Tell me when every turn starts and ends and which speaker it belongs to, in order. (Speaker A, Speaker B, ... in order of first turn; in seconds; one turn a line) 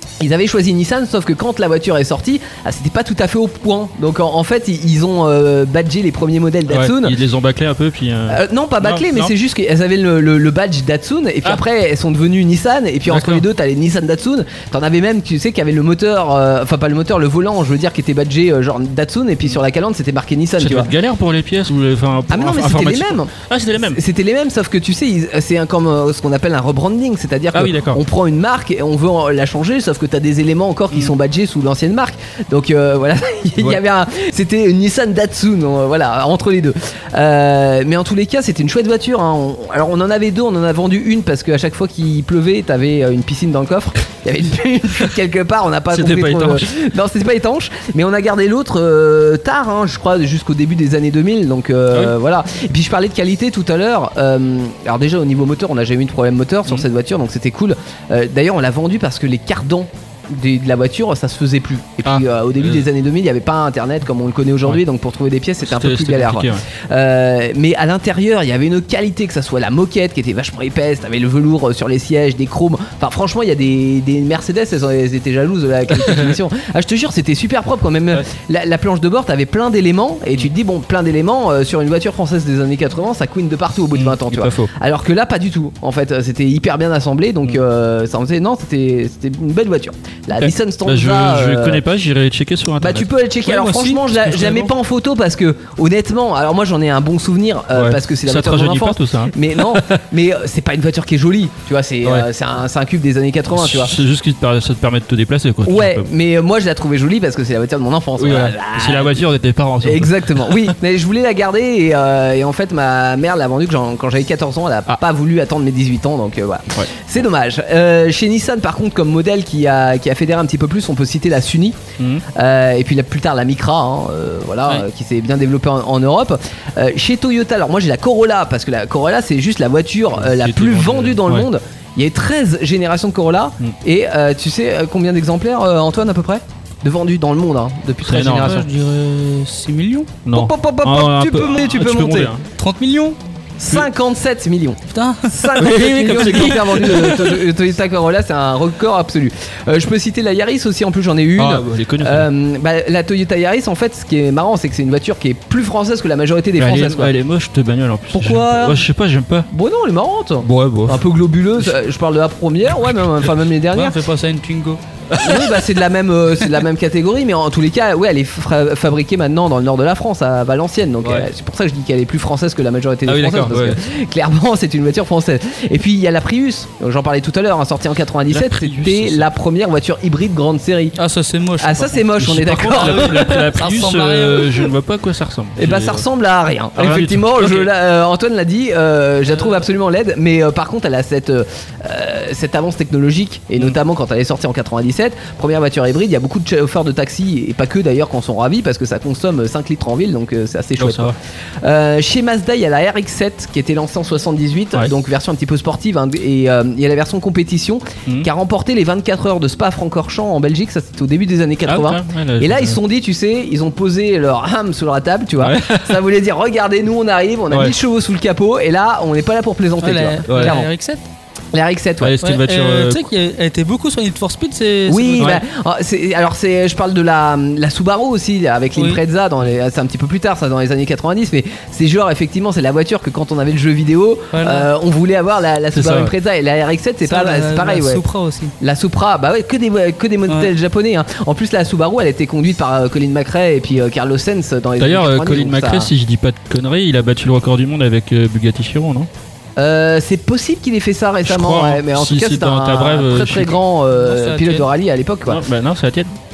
Speaker A: 0.2-7.2
Speaker B: 6.7-9.3
Speaker A: 8.3-20.9
Speaker B: 13.1-13.4
Speaker B: 20.6-24.0
Speaker A: 22.3-91.8
Speaker B: 27.5-28.0
Speaker B: 45.9-46.7
Speaker B: 62.0-62.8
Speaker B: 65.6-66.6
Speaker B: 75.9-76.3
Speaker B: 83.9-84.7
Speaker B: 90.4-93.1
Speaker A: 92.8-103.9
Speaker C: 93.5-94.0
Speaker B: 94.2-94.7
Speaker B: 97.7-100.0
Speaker B: 103.5-106.1
Speaker A: 105.6-109.2
Speaker B: 108.2-110.7
Speaker A: 109.8-121.8
Speaker B: 122.0-122.2
Speaker A: 122.3-138.6
Speaker B: 130.2-131.5
Speaker B: 138.0-138.7
Speaker C: 138.2-140.2
Speaker B: 140.2-142.4
Speaker A: 140.3-142.3
Speaker C: 142.6-143.2
Speaker A: 143.6-157.1
Speaker C: 144.9-145.5
Speaker B: 145.5-147.5
Speaker B: 151.3-152.3
Speaker B: 156.6-159.5
Speaker A: 158.1-158.8
Speaker A: 159.5-163.9
Speaker B: 160.4-161.1
Speaker C: 163.7-164.8
Speaker B: 165.1-165.7
Speaker A: 165.2-181.0
Speaker B: 171.0-171.3
Speaker B: 173.1-173.8
Speaker B: 178.3-179.2
Speaker C: 181.0-182.0
Speaker A: 181.6-183.5
Speaker B: 182.2-186.0
Speaker C: 182.7-184.7
Speaker A: 185.6-220.7
Speaker B: 186.7-187.7
Speaker B: 200.8-201.1
Speaker B: 211.7-212.8
Speaker B: 215.4-216.0
Speaker C: 219.8-221.0
Speaker B: 220.3-220.6
Speaker A: 221.5-222.2
Speaker B: 222.0-223.1
Speaker C: 222.2-225.4
Speaker A: 224.9-238.0
Speaker B: 225.2-225.4
Speaker C: 234.3-234.7
Speaker B: 235.7-236.1
Speaker C: 237.1-238.5
Speaker A: 238.6-245.9
Speaker B: 244.8-249.1
Speaker A: 249.6-255.4
Speaker B: 251.2-253.6
Speaker C: 253.9-254.7
Speaker B: 255.3-256.1